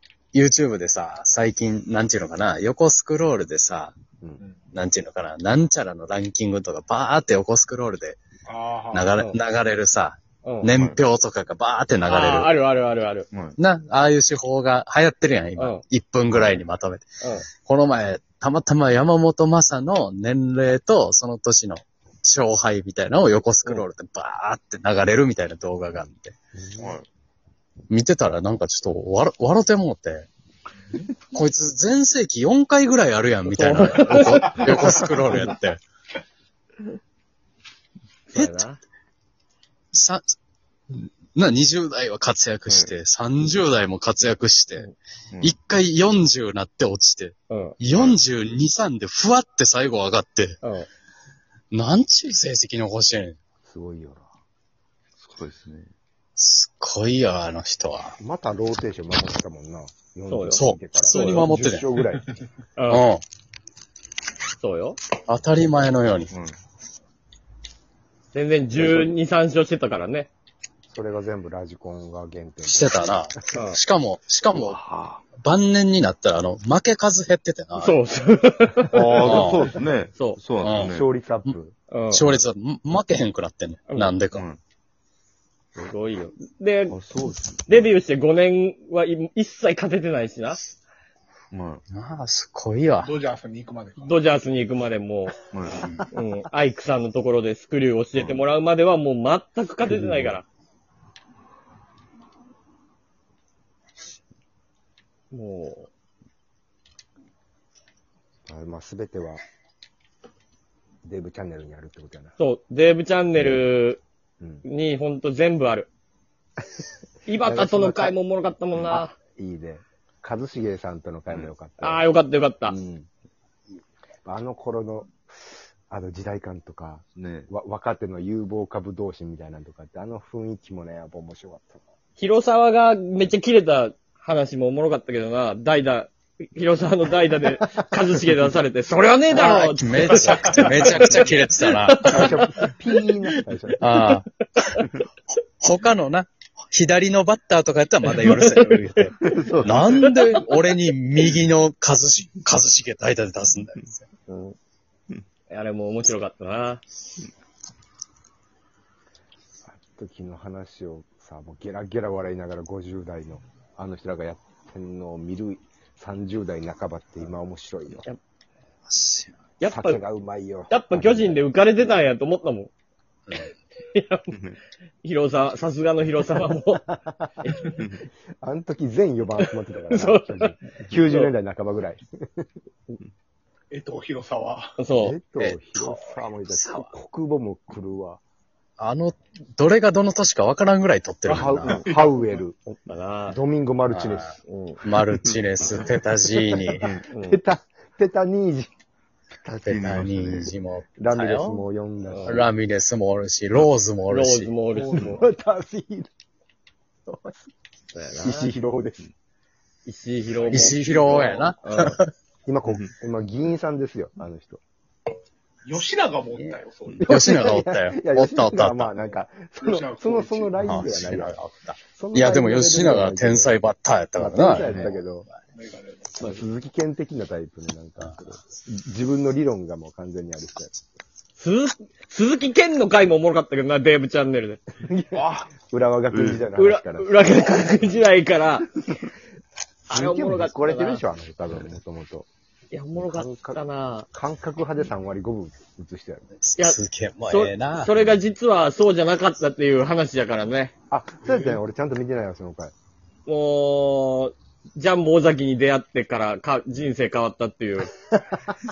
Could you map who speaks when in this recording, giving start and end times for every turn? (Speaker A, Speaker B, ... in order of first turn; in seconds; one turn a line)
Speaker A: 0.3-3.9
Speaker A: 4.7-8.2
Speaker B: 8.5-9.2
Speaker A: 8.9-12.5
Speaker C: 10.4-10.7
Speaker D: 10.7-11.0
Speaker C: 12.1-13.3
Speaker D: 13.3-13.6
Speaker A: 13.6-17.1
Speaker C: 15.6-15.8
Speaker C: 17.2-17.5
Speaker A: 17.6-26.4
Speaker E: 26.6-27.0
Speaker D: 26.8-27.1
Speaker A: 27.9-30.3
Speaker A: 31.3-35.8
Speaker C: 33.5-35.5
Speaker B: 34.5-35.1
Speaker C: 38.3-38.8
Speaker A: 39.9-40.2
Speaker A: 40.9-44.9
Speaker D: 42.7-42.9
Speaker A: 45.4-50.6
Speaker C: 47.5-47.8
Speaker C: 50.6-50.9
Speaker A: 51.7-53.4
Speaker E: 53.7-54.3
Speaker D: 55.2-55.9
Speaker A: 56.4-58.2
Speaker E: 58.2-62.3
Speaker C: 60.3-61.5
Speaker A: 60.5-62.0
Speaker C: 62.8-63.1
Speaker A: 62.9-63.2
Speaker C: 64.6-65.0
Speaker A: 65.3-66.3
Speaker D: 66.3-66.6
Speaker C: 68.3-70.3
Speaker E: 70.9-73.2
Speaker A: 72.7-74.8
Speaker C: 73.5-73.8
Speaker D: 74.5-75.2
Speaker A: 75.3-78.0
Speaker C: 77.8-79.5
Speaker D: 78.9-81.1
Speaker A: 79.1-79.6
Speaker A: 80.6-81.0
Speaker E: 80.8-81.8
Speaker C: 81.9-82.2
Speaker A: 82.1-84.5
Speaker C: 83.9-84.1
Speaker D: 84.3-84.6
Speaker C: 85.8-87.0
Speaker D: 86.9-87.8
Speaker C: 87.7-90.6
Speaker D: 91.5-91.8
Speaker A: 91.9-93.1
Speaker B: 93.0-94.2
Speaker C: 94.0-95.4
Speaker D: 95.5-95.9
Speaker A: 95.7-96.1
Speaker C: 96.1-100.5
Speaker D: 98.2-98.4
Speaker D: 99.9-100.3
Speaker C: 105.3-105.9
Speaker E: 108.5-109.4
Speaker E: 111.0-112.4
Speaker C: 112.4-114.0
Speaker E: 114.4-114.7
Speaker C: 114.6-115.9
Speaker C: 117.3-119.2
Speaker E: 117.4-118.2
Speaker E: 118.9-122.0
Speaker C: 121.8-122.8
Speaker E: 122.7-123.1
Speaker E: 124.2-131.8
Speaker D: 127.2-127.5
Speaker C: 132.2-142.7
Speaker A: 139.3-142.5
Speaker E: 140.2-141.1
Speaker E: 142.1-144.1
Speaker A: 143.8-154.1
Speaker C: 148.1-149.1
Speaker D: 149.2-149.9
Speaker C: 149.8-150.4
Speaker C: 154.3-154.6
Speaker C: 155.5-156.8
Speaker E: 159.7-168.1
Speaker A: 168.9-169.3
Speaker C: 169.6-170.0
Speaker E: 169.6-171.4
Speaker C: 170.7-172.7
Speaker C: 173.9-174.3
Speaker C: 175.0-176.8
Speaker E: 176.9-177.6
Speaker C: 177.4-177.8
Speaker E: 178.4-182.5
Speaker C: 179.9-181.3
Speaker B: 183.7-184.8
Speaker C: 184.8-185.2
Speaker E: 185.0-188.2
Speaker A: 185.4-186.9
Speaker A: 188.8-191.8
Speaker B: 191.3-192.4
Speaker E: 191.3-192.6
Speaker C: 192.7-193.4
Speaker E: 193.3-194.3
Speaker A: 193.9-196.9
Speaker C: 194.5-194.8
Speaker D: 196.8-197.1
Speaker C: 197.1-197.4
Speaker E: 197.1-198.7
Speaker E: 199.3-199.9
Speaker A: 199.7-201.7
Speaker D: 199.7-200.5
Speaker E: 201.0-202.5
Speaker C: 202.1-202.4
Speaker A: 202.3-204.5
Speaker C: 204.1-205.1
Speaker B: 204.7-205.3
Speaker E: 204.9-206.1
Speaker E: 207.1-207.5
Speaker C: 207.9-208.5
Speaker E: 208.2-209.1
Speaker C: 209.8-210.8
Speaker A: 210.5-212.1
Speaker B: 210.5-211.5
Speaker C: 211.6-212.0
Speaker E: 212.5-214.6
Speaker B: 215.7-217.2
Speaker A: 216.4-218.9
Speaker E: 217.0-221.4
Speaker B: 219.6-221.1
Speaker A: 220.6-225.0
Speaker E: 221.9-223.6
Speaker E: 224.2-225.3
Speaker D: 224.7-225.0
Speaker B: 225.6-226.3
Speaker E: 226.2-230.8
Speaker C: 231.4-234.6
Speaker E: 234.8-237.9
Speaker B: 235.1-235.5
Speaker D: 236.1-236.4
Speaker C: 236.6-238.7
Speaker C: 239.9-241.0
Speaker E: 239.9-242.3
Speaker C: 242.7-244.1
Speaker E: 243.0-243.6
Speaker E: 244.1-246.3
Speaker A: 246.4-248.0
Speaker C: 246.6-250.7
Speaker E: 250.9-252.7
Speaker C: 253.3-257.9